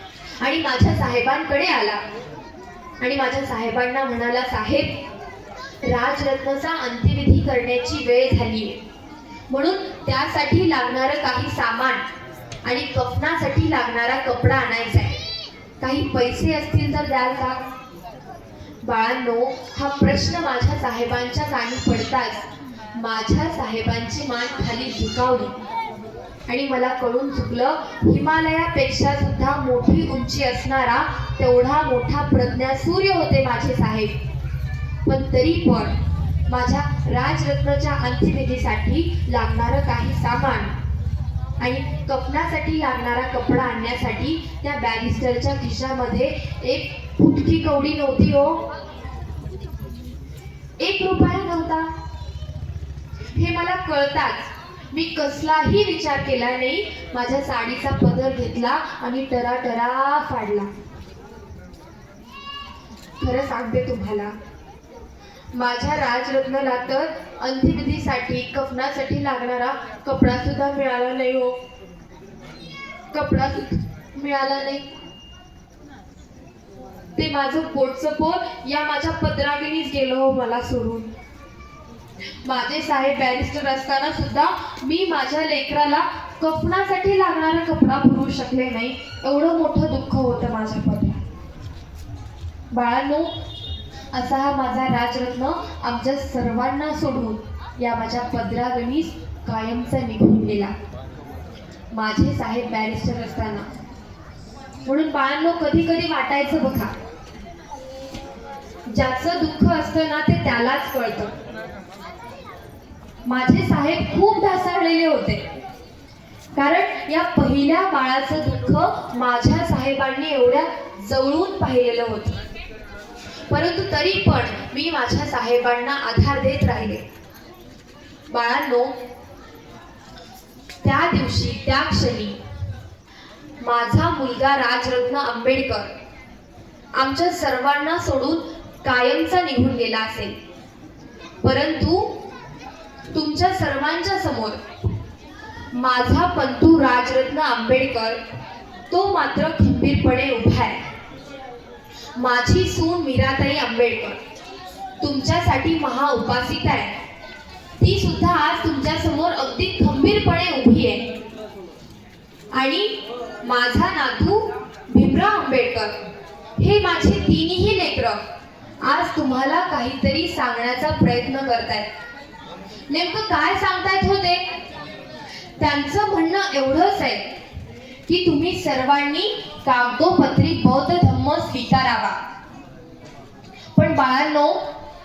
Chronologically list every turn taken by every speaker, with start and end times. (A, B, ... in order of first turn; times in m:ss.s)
0:00.4-0:02.0 A
0:03.0-0:04.9 A
0:05.8-0:08.8 A
0:09.5-0:12.0 A
0:12.6-0:15.2 A
0:15.8-0:17.6 A
0:18.8-0:25.5 A
0:26.5-0:34.1 A
0:35.1-0:35.9 A
0:36.5-0:40.7 A
0:41.6-0:48.6 A
0:50.8-0:51.9 A
0:53.3-1:00.7 A
1:03.2-1:04.4 A
1:05.5-1:11.6 A
1:13.1-1:14.9 A
1:17.2-1:21.1 A
1:22.4-1:31.2 A
1:32.7-1:33.3 A
1:34.1-1:40.7 A
1:41.9-1:43.7 A
1:44.8-1:46.9 A
1:48.9-1:51.3 A
1:53.3-1:55.4 A
1:56.6-2:02.4 A
2:03.5-2:07.0 A
2:08.3-2:09.0 A
2:10.8-2:12.4 A
2:13.6-2:15.9 A
2:17.0-2:20.4 A
2:21.4-2:22.2 A
2:23.1-2:24.6 A
2:25.7-2:28.2 A
2:28.9-2:30.8 A
2:32.2-2:34.2 A
2:35.0-2:36.9 A
2:37.8-2:41.1 A
2:42.5-2:45.9 A
2:46.6-2:48.2 A
2:48.8-2:51.9 A
2:52.9-2:54.4 A
2:55.6-2:57.3 A
2:58.1-3:02.2 A
3:03.8-3:04.6 A